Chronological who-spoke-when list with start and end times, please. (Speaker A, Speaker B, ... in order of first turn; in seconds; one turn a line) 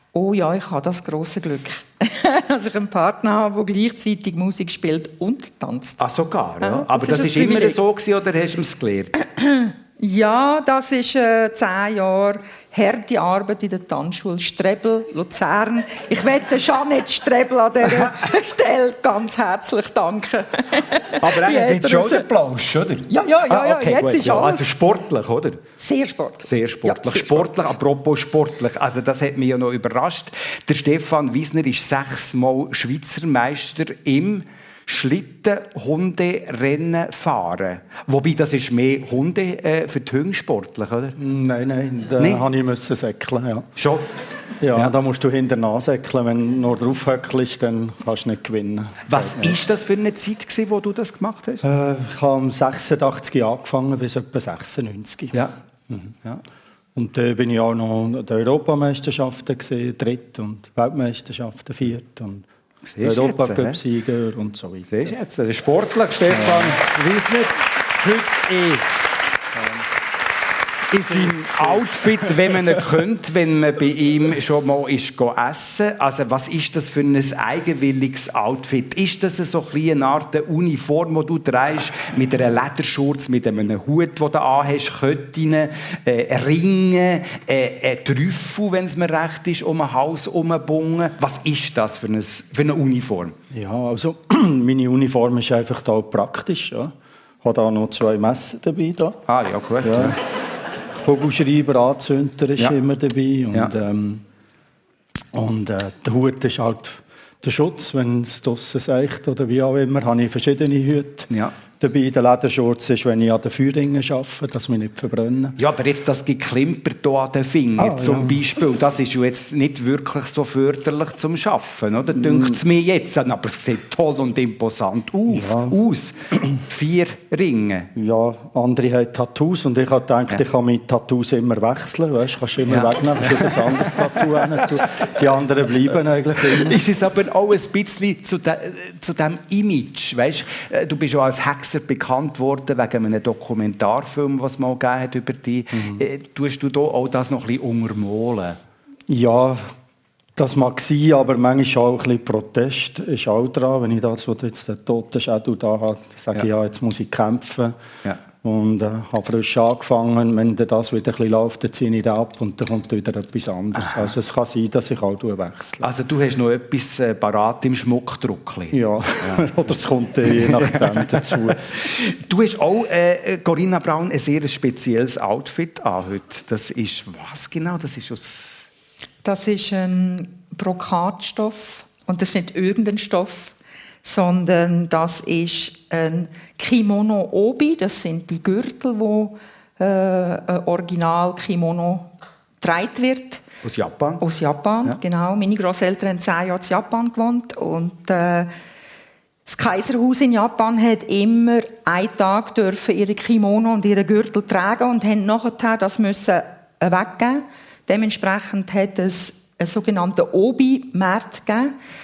Speaker A: 0.1-6.0
Speaker B: 6.0-9.2
Speaker A: 6.6-7.8
Speaker A: 9.3-22.3
Speaker B: 17.9-18.1
Speaker B: 21.2-25.6
Speaker A: 23.1-24.7
Speaker A: 25.8-27.5
Speaker B: 26.4-41.2
Speaker C: 41.2-43.7
Speaker B: 43.8-44.1
Speaker C: 44.6-49.5
Speaker B: 49.1-51.6
Speaker C: 51.6-56.2
Speaker C: 56.9-62.5
Speaker B: 62.9-63.8
Speaker C: 63.0-65.1
Speaker B: 64.9-68.8
Speaker C: 66.3-66.7
Speaker B: 70.9-93.3
Speaker C: 70.9-72.8
Speaker C: 93.5-99.2
Speaker B: 99.3-100.2
Speaker C: 99.8-100.2
Speaker C: 100.9-104.2
Speaker C: 105.3-115.5
Speaker B: 115.6-127.9
Speaker C: 117.8-118.4
Speaker C: 122.2-122.6
Speaker C: 125.3-125.8
Speaker C: 127.9-136.8
Speaker B: 132.7-134.6
Speaker B: 136.6-148.6
Speaker C: 145.7-146.0
Speaker C: 149.1-149.7
Speaker C: 150.3-157.8
Speaker C: 158.4-165.9
Speaker B: 165.8-169.5
Speaker C: 168.7-171.7
Speaker B: 170.4-178.7
Speaker A: 179.2-192.1
Speaker A: 192.6-193.4
Speaker B: 193.6-194.2
Speaker A: 194.2-198.5
Speaker A: 199.5-211.7